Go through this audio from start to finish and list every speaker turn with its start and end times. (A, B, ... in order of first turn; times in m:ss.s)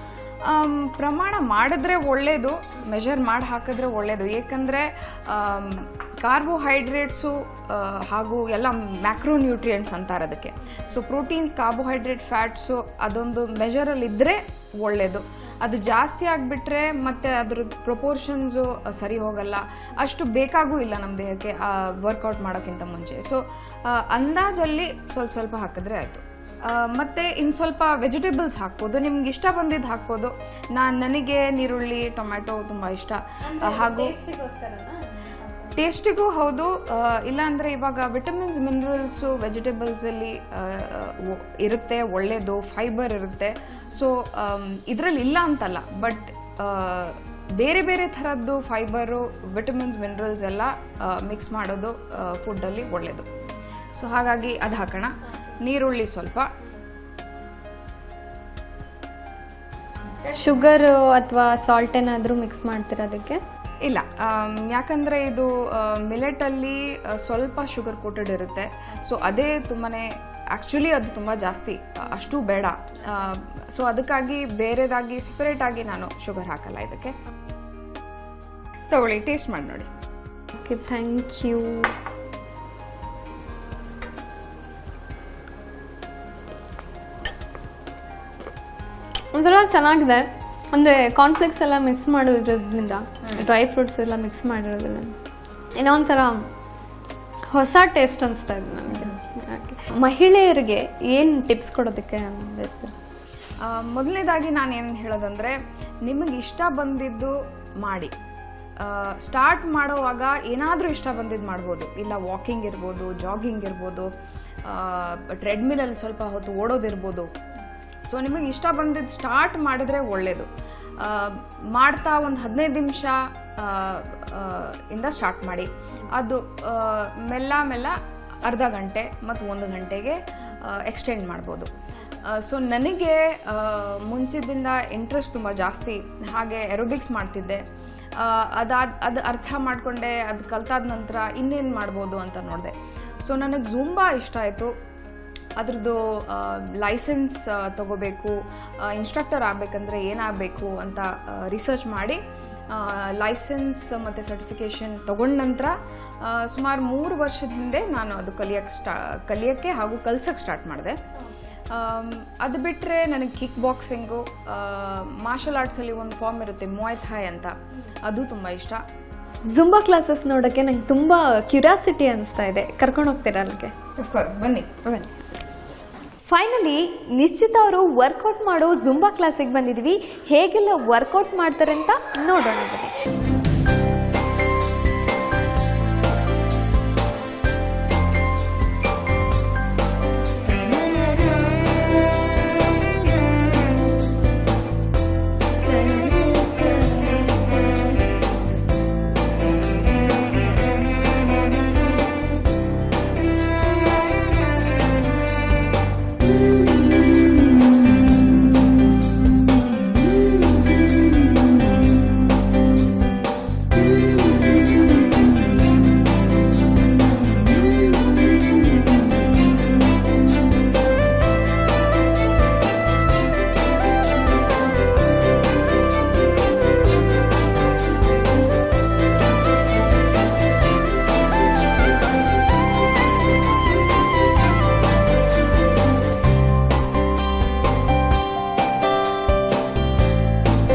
0:00.5-0:34.2 A
0:33.4-0:35.9 B
0:35.8-0:53.3 A
0:54.0-0:56.5 A
1:00.3-1:03.4 B
1:03.9-1:17.1 A
1:18.9-1:19.9 A
1:20.6-1:21.9 B
1:29.3-1:35.2 B
1:35.8-1:36.5 B
1:37.5-1:42.9 B
1:43.6-1:48.1 A
1:48.8-1:54.1 A
1:54.7-1:57.3 A
1:58.1-2:00.5 A
2:01.0-2:11.7 A
2:12.3-2:17.6 A
2:18.2-2:24.7 A
2:25.6-2:28.4 A
2:28.9-2:32.2 A
2:32.7-2:41.0 A
2:41.7-2:48.8 A
2:49.5-2:53.7 B
2:54.0-2:54.7 A
2:54.8-2:55.2 B
2:56.3-3:02.9 B